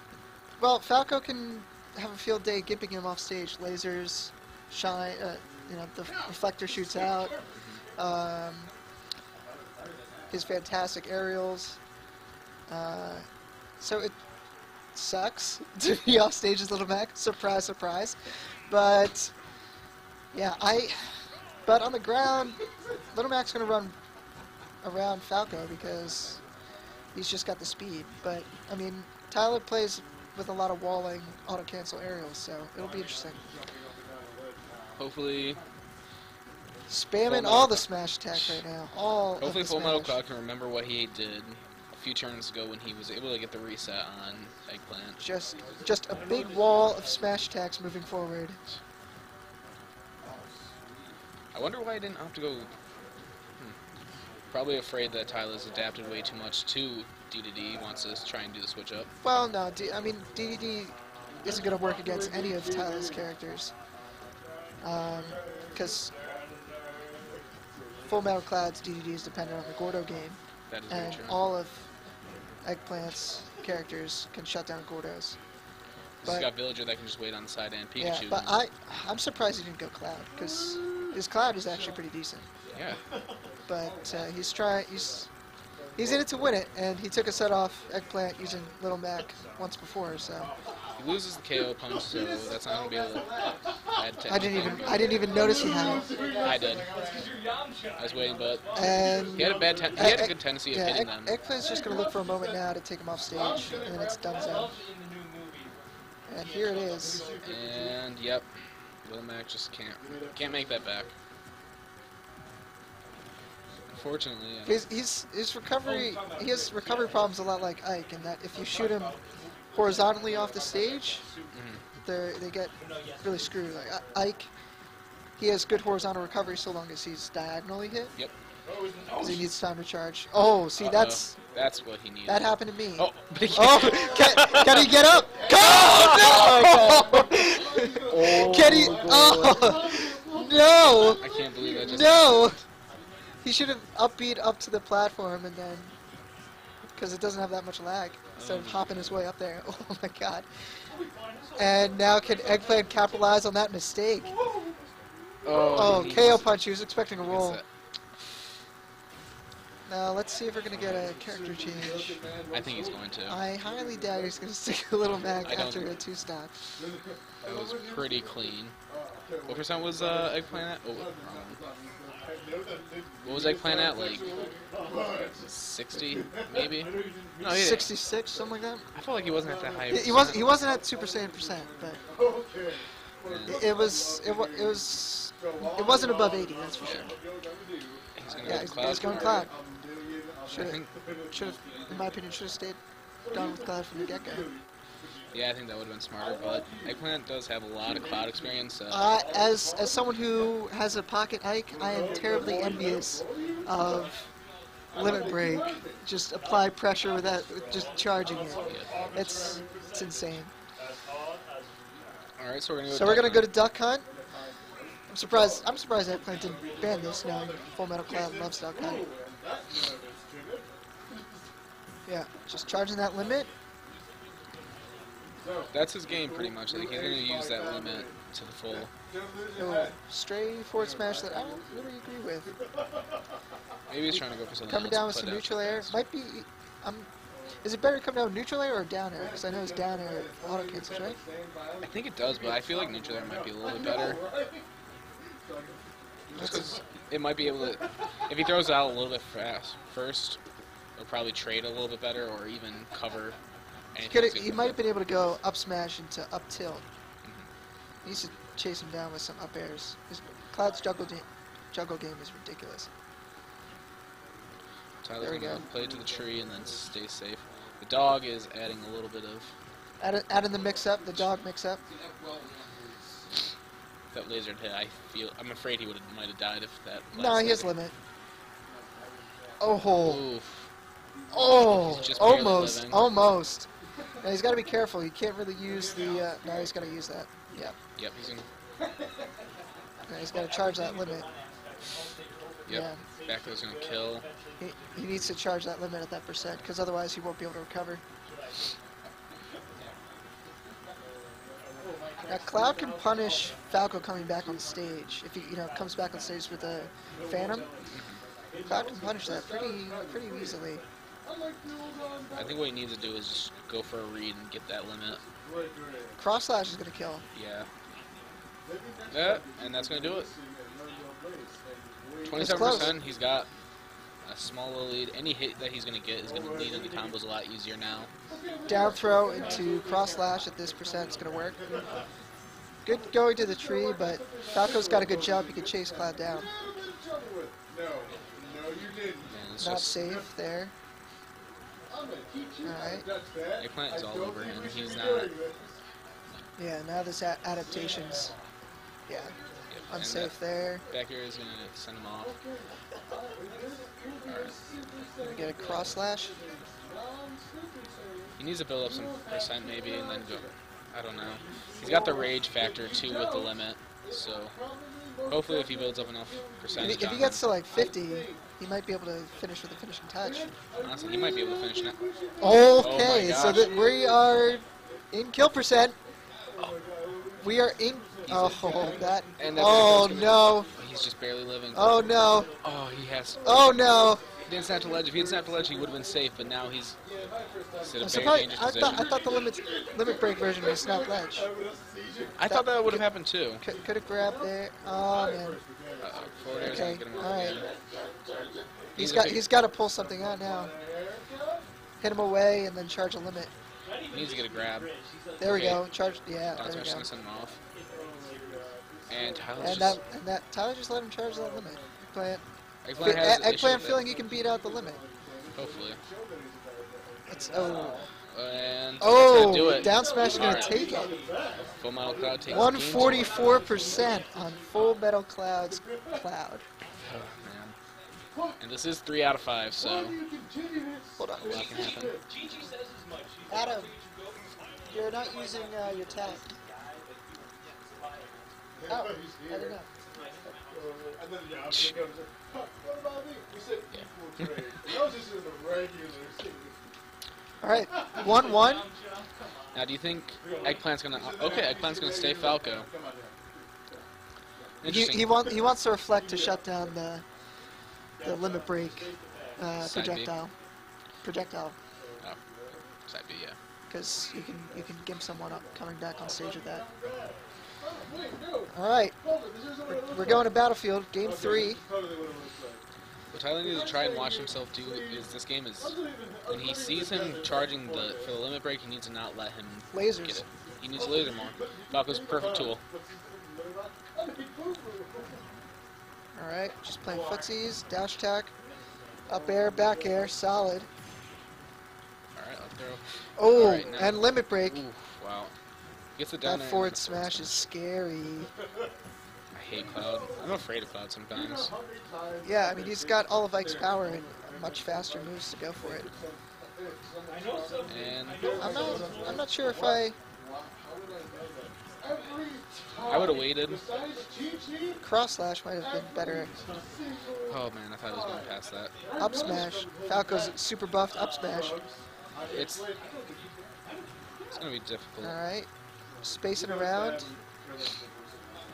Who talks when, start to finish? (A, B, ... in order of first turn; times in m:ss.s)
0:00.6-0:07.4 A
0:07.5-0:07.8 B
0:08.0-0:08.7 A
0:10.3-0:11.8 A
0:12.7-0:13.2 A
0:13.8-0:14.2 A
0:14.9-0:18.2 A
0:18.7-0:19.3 A
0:20.3-0:21.1 A
0:21.6-0:23.9 A
0:24.8-0:26.4 A
0:27.1-0:33.4 A
0:35.0-0:35.6 B
0:36.9-0:40.2 A
0:37.2-0:38.6 B
0:39.4-0:45.2 B
0:45.2-0:48.6 A
0:51.5-0:52.7 B
0:54.5-0:59.1 B
0:59.2-1:03.7 A
1:04.8-1:06.1 A
1:08.1-1:10.4 A
1:10.7-1:11.4 B
1:10.9-1:11.9 A
1:12.6-1:15.4 A
1:16.2-1:18.6 B
1:18.0-1:22.4 A
1:22.7-1:23.0 B
1:23.7-1:25.3 A
1:26.0-1:30.5 A
1:31.0-1:33.3 B
1:33.9-1:35.0 B
1:34.3-1:36.1 A
1:36.4-1:36.9 B
1:38.0-1:38.7 B
1:38.7-1:44.8 A
1:39.3-1:41.4 B
1:46.3-1:47.2 A
1:47.4-1:48.5 B
1:49.0-1:51.1 B
1:53.9-1:54.8 B
1:54.6-1:59.2 A
1:59.7-2:01.2 A
2:01.5-2:01.8 B
2:02.0-2:04.5 A
2:05.4-2:08.1 A
2:09.2-2:11.3 A
2:10.8-2:17.3 B
2:12.3-2:21.2 A
2:17.8-2:18.1 C
2:18.1-2:19.7 B
2:18.9-2:19.7 C
2:20.9-2:22.6 B
2:21.7-2:22.6 A
2:23.4-2:25.9 A
2:27.0-2:30.5 A
2:28.4-2:29.2 B
2:31.6-2:34.3 A
2:35.4-2:36.6 B
2:35.7-2:37.6 A
2:37.2-2:37.6 B
2:39.8-2:42.2 A
2:42.5-2:43.4 B
2:43.3-2:46.5 A
2:45.4-2:45.9 B
2:47.4-2:48.8 B
2:49.5-2:51.6 B
2:53.2-2:54.3 B
2:53.3-2:54.2 C
2:55.5-2:57.9 B
2:57.4-2:58.8 A
2:58.9-3:00.5 B
2:59.9-3:02.0 A
3:03.2-3:03.6 B
3:03.5-3:07.1 A
3:03.8-3:04.2 C
3:06.5-3:07.7 C
3:08.2-3:09.5 B
3:08.4-3:09.5 A
3:08.6-3:09.4 C
3:10.5-3:12.8 A
3:10.5-3:10.9 B
3:13.3-3:14.5 A
3:15.3-3:19.1 B
3:18.9-3:24.2 A
3:24.9-3:30.5 A
3:32.4-3:33.5 B
3:32.9-3:34.1 A
3:35.1-3:39.0 A
3:42.0-3:43.5 A
3:45.7-3:48.9 B
3:49.6-3:52.5 A
3:53.9-3:55.9 B
3:54.7-3:57.1 A
3:57.6-4:01.2 A
4:00.9-4:01.3 C
4:01.8-4:04.2 B
4:04.1-4:04.6 C
4:06.3-4:10.4 B
4:06.4-4:06.7 A
4:11.0-4:13.4 B
4:13.9-4:14.8 B
4:14.1-4:16.8 A
4:18.0-4:22.9 A
4:25.0-4:29.5 B
4:25.2-4:25.6 A
4:30.0-4:31.8 A
4:34.1-4:37.7 B
4:37.1-4:37.9 A
4:39.6-4:40.2 A
4:40.0-4:40.7 B
4:41.3-4:43.7 A
4:41.6-4:43.1 B
4:44.2-4:47.7 A
4:48.0-4:48.5 B
4:50.1-4:51.3 A
4:52.6-4:54.3 B
4:52.7-4:53.0 A
4:54.6-4:58.0 A
5:02.2-5:07.7 A
5:07.9-5:08.2 B
5:08.6-5:10.8 A
5:12.3-5:15.2 B
5:16.2-5:17.2 A
5:17.3-5:17.7 B
5:19.1-5:20.3 B
5:22.2-5:23.5 B
5:22.3-5:23.0 A
5:24.2-5:28.1 B
5:28.7-5:31.6 A
5:32.8-5:36.5 A
5:36.5-5:37.7 C
5:39.3-5:40.0 B
5:39.6-5:40.7 A
5:42.0-5:43.1 C
5:42.6-5:43.0 A
5:43.6-5:45.3 B
5:44.5-5:45.3 C
5:46.6-5:48.3 A
5:49.1-5:49.3 A
5:49.7-5:50.3 B
5:49.9-5:50.8 A
5:50.9-5:52.3 B
5:54.2-5:54.6 B
5:55.2-5:56.3 A
5:58.4-6:04.6 B
6:05.3-6:07.4 B
6:06.8-6:10.5 A
6:10.8-6:12.0 B
6:12.4-6:16.0 A
6:12.7-6:13.7 B
6:17.4-6:20.7 A
6:19.4-6:23.6 B
6:21.7-6:22.5 A
6:23.4-6:24.2 A
6:24.4-6:27.0 B
6:27.8-6:29.1 B
6:28.0-6:31.4 A
6:32.4-6:33.6 B
6:32.5-6:33.0 A
6:33.6-6:35.6 A
6:36.0-6:37.7 B
6:36.6-6:37.6 A
6:39.0-6:39.4 B
6:39.0-6:40.7 A
6:42.0-6:43.5 A
6:44.1-6:45.8 B
6:45.4-6:47.1 A
6:46.5-6:47.6 B
6:49.1-6:50.0 B
6:49.6-6:52.4 A
6:52.8-6:54.0 B
6:53.0-6:55.0 A
6:55.5-6:56.0 B
6:57.3-6:58.0 A
6:58.3-7:00.8 B
6:59.0-7:01.1 A
7:01.8-7:03.5 B
7:02.5-7:06.6 A
7:07.0-7:07.8 B
7:08.6-7:10.2 B
7:11.2-7:11.7 A
7:11.4-7:12.2 B
7:13.5-7:13.9 A
7:14.9-7:16.5 A
7:18.9-7:19.9 A
7:21.7-7:22.0 B
7:22.6-7:23.6 C
7:23.9-7:24.8 B
7:24.5-7:26.7 C
7:27.6-7:28.8 A
7:29.7-7:32.9 B
7:34.8-7:35.4 B
7:34.8-7:37.2 A
7:38.2-7:40.5 A
7:39.8-7:40.3 B
7:41.2-7:41.8 A
7:43.0-7:43.6 B
7:43.9-7:46.8 A
7:48.2-7:48.7 C
7:48.7-7:49.1 A
7:49.9-7:51.8 A
7:52.0-7:52.8 C
7:53.3-8:02.8 B
7:59.9-8:00.4 A
8:03.8-8:05.0 C
8:06.4-8:08.5 A
8:09.3-8:10.9 A
8:12.4-8:15.5 B
8:13.4-8:14.8 A
8:16.2-8:17.6 B
8:16.4-8:18.5 A
8:19.5-8:21.7 B
8:22.4-8:26.1 A
8:27.9-8:28.5 B
8:28.6-8:30.2 A
8:33.0-8:33.8 B
8:35.0-8:36.5 A
8:37.4-8:38.9 B
8:39.2-8:41.8 A
8:42.5-8:42.8 B
8:44.5-8:45.4 B
8:45.2-8:45.7 A
8:46.2-8:47.3 A